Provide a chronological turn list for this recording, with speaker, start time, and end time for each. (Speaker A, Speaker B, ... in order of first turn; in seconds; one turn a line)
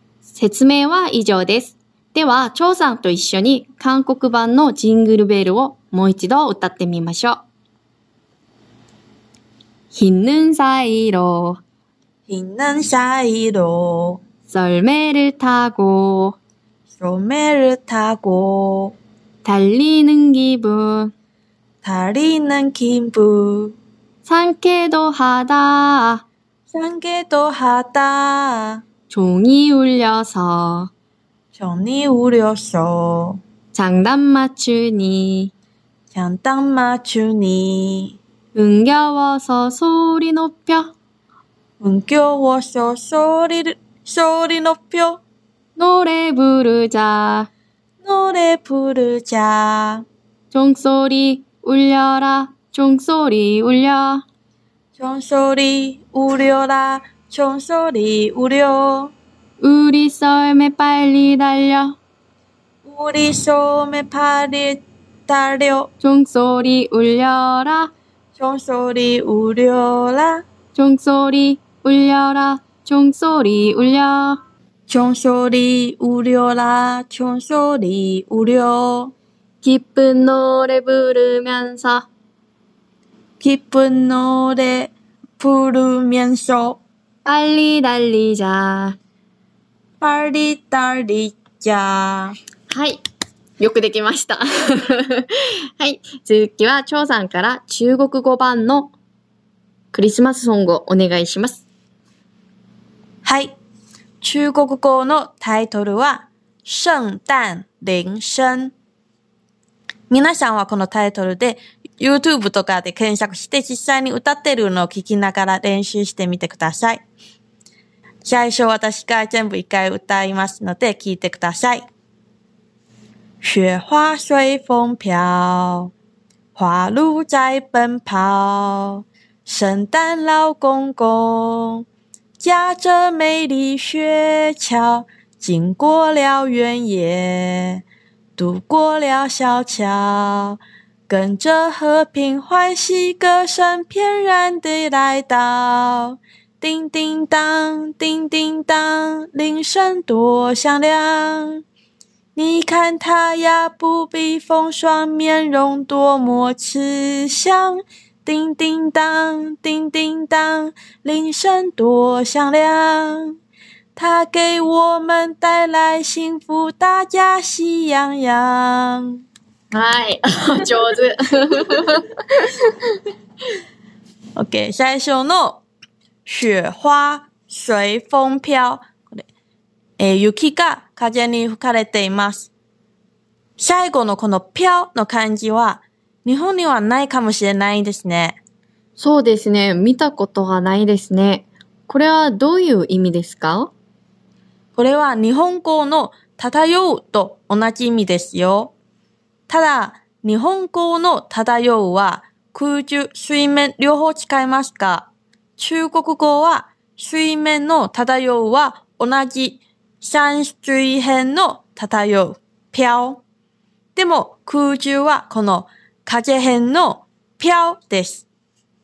Speaker A: 0.3-7.4
Speaker A: 9.9-11.6
Speaker B: 12.3-14.2
Speaker A: 14.5-16.4
Speaker B: 17.0-19.0
Speaker A: 19.4-21.1
Speaker B: 21.8-23.8
Speaker A: 24.2-26.2
Speaker B: 26.7-28.8
Speaker A: 29.1-30.9
Speaker B: 31.5-33.4
Speaker A: 33.7-35.5
Speaker B: 36.1-38.2
Speaker A: 38.5-40.9
Speaker B: 41.8-45.2
Speaker A: 45.8-47.5
Speaker B: 48.0-50.0
Speaker A: 50.5-54.2
Speaker B: 55.0-59.1
Speaker A: 59.6-62.0
Speaker B: 62.8-65.9
Speaker A: 66.0-67.9
Speaker B: 68.4-70.4
Speaker A: 70.8-74.4
Speaker B: 74.9-79.1
Speaker A: 79.6-82.1
Speaker B: 83.4-86.8
Speaker A: 87.2-89.0
Speaker B: 90.0-92.4
Speaker A: 92.7-93.0
Speaker A: 93.6-98.9
Speaker A: 99.9-101.6
Speaker B: 103.2-103.5
Speaker B: 104.2-108.7
Speaker B: 110.1-117.0
Speaker B: 118.2-121.9
Speaker B: 123.4-125.9
Speaker B: 126.5-131.8
Speaker B: 132.4-137.8
Speaker B: 138.4-151.6
Speaker B: 152.4-163.4
Speaker B: 164.0-169.2
Speaker A: 169.7-172.5
Speaker B: 174.4-175.6
Speaker B: 176.2-179.2
Speaker B: 180.0-182.5
Speaker B: 183.6-188.4
Speaker A: 189.0-193.7
Speaker B: 194.8-198.7
Speaker B: 199.5-205.1
Speaker B: 205.6-213.2
Speaker B: 213.9-218.2